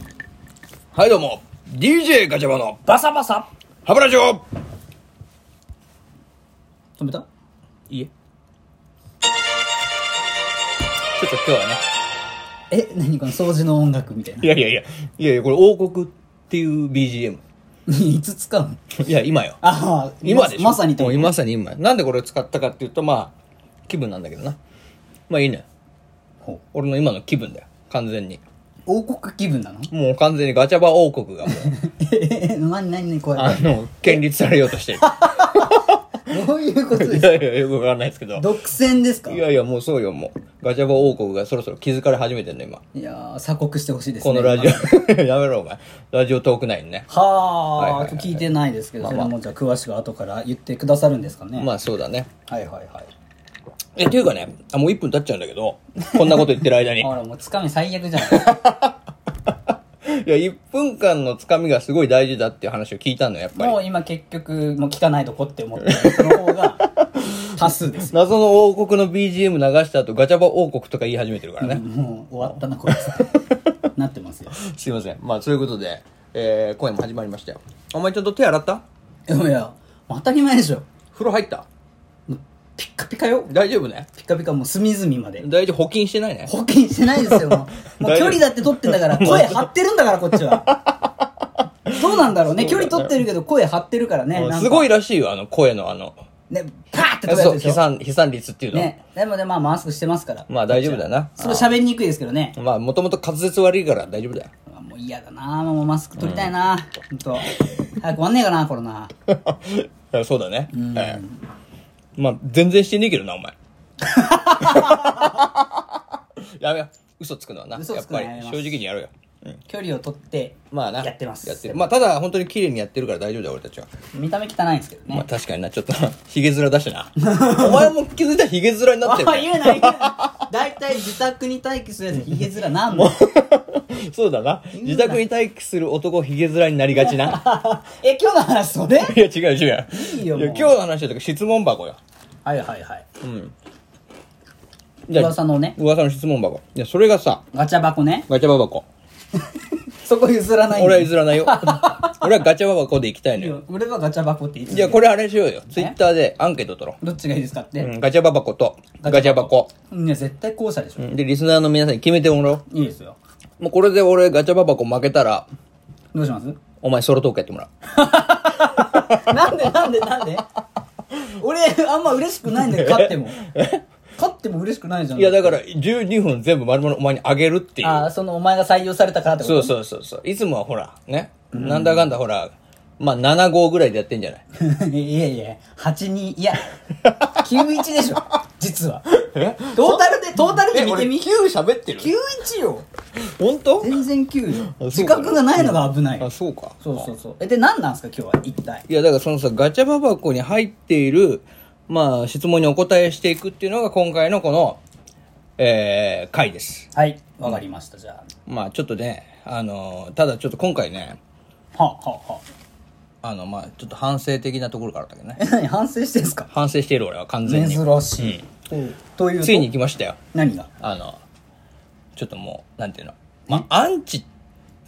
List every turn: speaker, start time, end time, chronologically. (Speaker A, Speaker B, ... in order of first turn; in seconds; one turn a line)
Speaker A: 0.9-2.9
Speaker B: 2.9-3.5
Speaker A: 3.9-4.4
Speaker B: 7.0-7.2
Speaker A: 11.2-11.8
Speaker B: 12.7-14.5
Speaker A: 14.4-17.4
Speaker B: 17.9-18.8
Speaker A: 18.9-19.6
Speaker B: 19.6-21.3
Speaker A: 20.2-23.3
Speaker A: 23.9-24.6
Speaker A: 25.3-25.6
Speaker A: 26.7-28.4
Speaker B: 28.9-29.9
Speaker A: 29.9-31.7
Speaker B: 31.4-34.1
Speaker A: 33.4-36.0
Speaker B: 35.0-37.5
Speaker A: 37.0-38.5
Speaker B: 38.4-39.4
Speaker A: 39.3-42.8
Speaker B: 42.9-45.0
Speaker A: 44.2-47.1
Speaker B: 47.1-51.7
Speaker A: 47.8-48.5
Speaker A: 49.0-49.3
Speaker A: 51.6-52.3
Speaker B: 52.5-53.1
Speaker A: 54.0-57.1
Speaker B: 57.0-58.5
Speaker A: 58.3-58.9
Speaker A: 60.0-63.8
Speaker B: 63.5-66.9
Speaker A: 65.8-67.5
Speaker B: 67.5-68.1
Speaker A: 68.0-71.8
Speaker B: 71.6-74.5
Speaker A: 74.6-78.8
Speaker B: 79.3-80.8
Speaker A: 81.1-81.7
Speaker B: 82.3-83.5
Speaker A: 83.5-84.1
Speaker B: 84.2-85.5
Speaker A: 85.4-86.5
Speaker B: 86.5-90.8
Speaker A: 88.0-89.6
Speaker A: 90.6-91.1
Speaker B: 91.9-94.9
Speaker A: 92.6-93.1
Speaker A: 94.3-96.2
Speaker B: 96.5-97.8
Speaker A: 97.3-98.9
Speaker B: 98.7-102.5
Speaker A: 100.5-101.8
Speaker A: 102.5-104.5
Speaker B: 104.7-109.1
Speaker A: 109.3-111.2
Speaker B: 110.7-111.4
Speaker A: 112.2-113.5
Speaker B: 114.0-115.4
Speaker A: 114.5-116.0
Speaker A: 116.6-119.6
Speaker B: 117.7-118.8
Speaker B: 119.7-121.9
Speaker A: 120.7-123.9
Speaker B: 124.1-125.2
Speaker A: 125.1-130.4
Speaker B: 127.2-127.9
Speaker B: 129.0-133.2
Speaker A: 132.9-137.5
Speaker B: 134.7-135.2
Speaker B: 136.9-139.2
Speaker A: 139.0-142.0
Speaker B: 139.9-140.7
Speaker B: 142.4-143.0
Speaker A: 143.2-143.5
Speaker A: 145.1-147.4
Speaker B: 145.1-145.8
Speaker B: 147.5-148.3
Speaker A: 148.3-148.8
Speaker B: 150.0-152.4
Speaker A: 150.7-153.6
Speaker B: 153.3-155.1
Speaker A: 154.7-157.0
Speaker B: 155.7-155.9
Speaker B: 157.0-157.9
Speaker A: 157.8-159.7
Speaker B: 159.0-161.0
Speaker A: 161.0-162.6
Speaker B: 162.7-163.2
Speaker A: 163.6-165.4
Speaker B: 166.1-166.6
Speaker A: 166.8-167.7
Speaker B: 167.9-170.4
Speaker B: 171.2-173.4
Speaker A: 172.8-173.8
Speaker B: 174.2-175.6
Speaker A: 175.2-178.1
Speaker B: 177.8-179.7
Speaker A: 179.4-184.4
Speaker B: 181.5-182.1
Speaker B: 184.5-186.7
Speaker B: 187.2-189.0
Speaker A: 189.1-192.1
Speaker B: 189.7-191.2
Speaker B: 192.0-192.8
Speaker A: 193.4-193.9
Speaker B: 193.8-196.3
Speaker A: 194.7-197.0
Speaker B: 196.8-198.8
Speaker A: 198.9-204.8
Speaker A: 205.6-206.9
Speaker B: 206.9-208.2
Speaker A: 208.5-211.2
Speaker B: 211.7-212.4
Speaker A: 213.2-215.4
Speaker B: 215.4-216.5
Speaker A: 216.5-218.4
Speaker B: 217.4-219.7
Speaker A: 219.4-220.2
Speaker B: 220.3-220.7
Speaker A: 220.8-221.2
Speaker A: 222.2-224.2